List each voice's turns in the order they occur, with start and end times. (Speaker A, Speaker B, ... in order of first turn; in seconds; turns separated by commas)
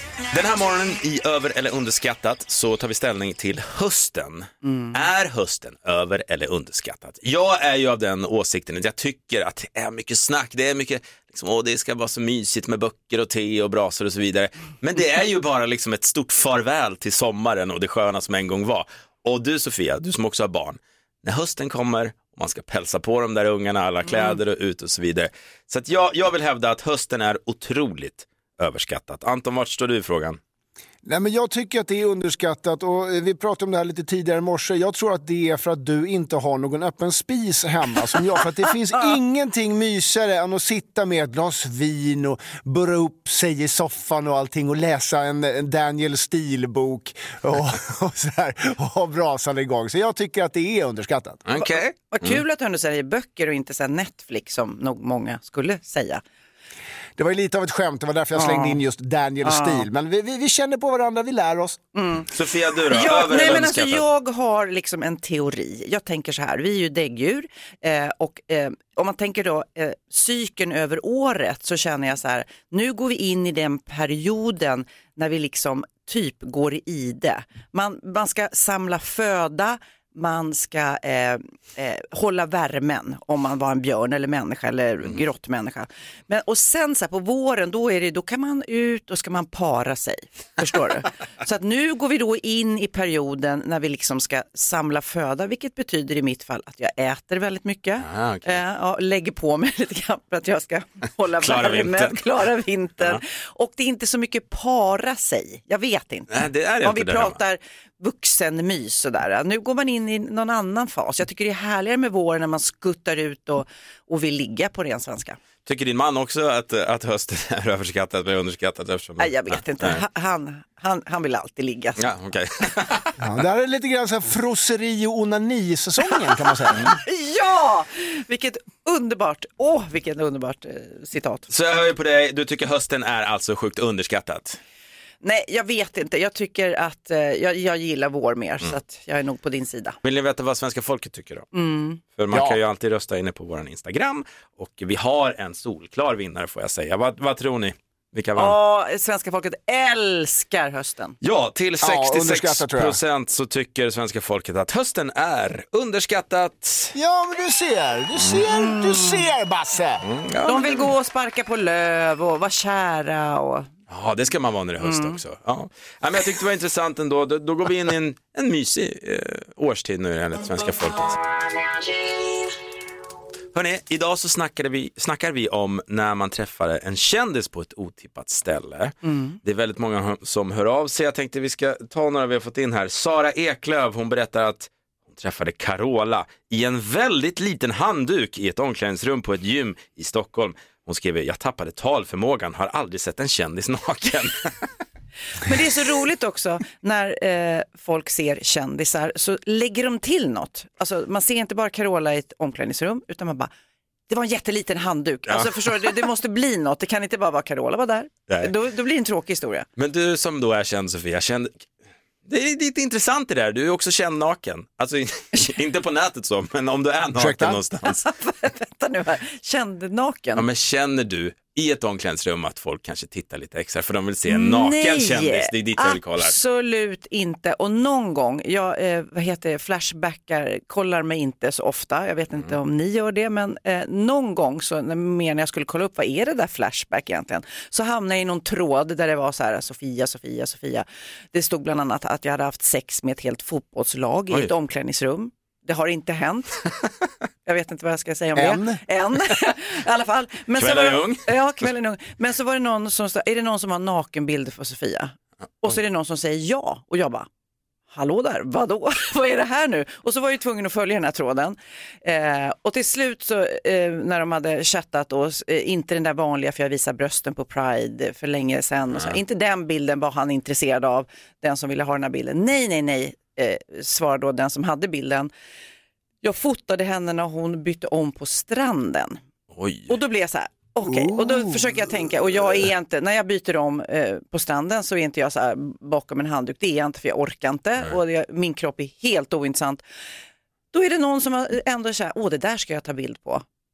Speaker A: 0.3-30.4, Speaker B: 4.6-5.0, Speaker C: 31.0-51.4, Speaker A: 51.4-52.4, Speaker B: 51.6-56.2, Speaker C: 57.2-61.8, Speaker B: 58.3-58.8, Speaker B: 59.4-59.9, Speaker B: 61.9-62.3, Speaker A: 62.3-64.0, Speaker B: 62.9-115.4, Speaker A: 98.0-98.6, Speaker A: 101.4-102.2, Speaker A: 106.3-107.4, Speaker A: 115.7-120.0, Speaker B: 119.2-122.0, Speaker A: 122.0-123.1, Speaker C: 123.2-126.8, Speaker B: 126.7-131.5, Speaker A: 131.5-134.6, Speaker B: 135.2-140.0, Speaker A: 140.0-141.5, Speaker B: 141.5-142.0, Speaker A: 142.1-148.6, Speaker C: 142.3-142.6, Speaker B: 148.3-151.2, Speaker A: 151.2-156.9, Speaker C: 151.8-153.0, Speaker C: 156.9-160.0, Speaker B: 158.6-159.2, Speaker A: 160.0-160.9, Speaker B: 160.4-163.7, Speaker A: 163.9-171.2, Speaker B: 164.8-165.2, Speaker A: 173.5-194.5, Speaker B: 179.1-179.4, Speaker B: 195.3-203.5, Speaker B: 204.1-209.7, Speaker A: 205.3-205.9, Speaker A: 209.8-211.5, Speaker A: 212.2-218.1, Speaker C: 217.1-217.6, Speaker B: 217.8-220.4, Speaker A: 220.3-226.3, Speaker B: 224.3-246.7, Speaker B: 247.4-257.3, Speaker C: 248.3-248.8, Speaker A: 250.5-251.2, Speaker B: 257.9-275.3, Speaker B: 276.2-279.2, Speaker A: 279.5-280.0, Speaker B: 279.9-289.8, Speaker C: 280.8-281.8, Speaker B: 290.7-293.4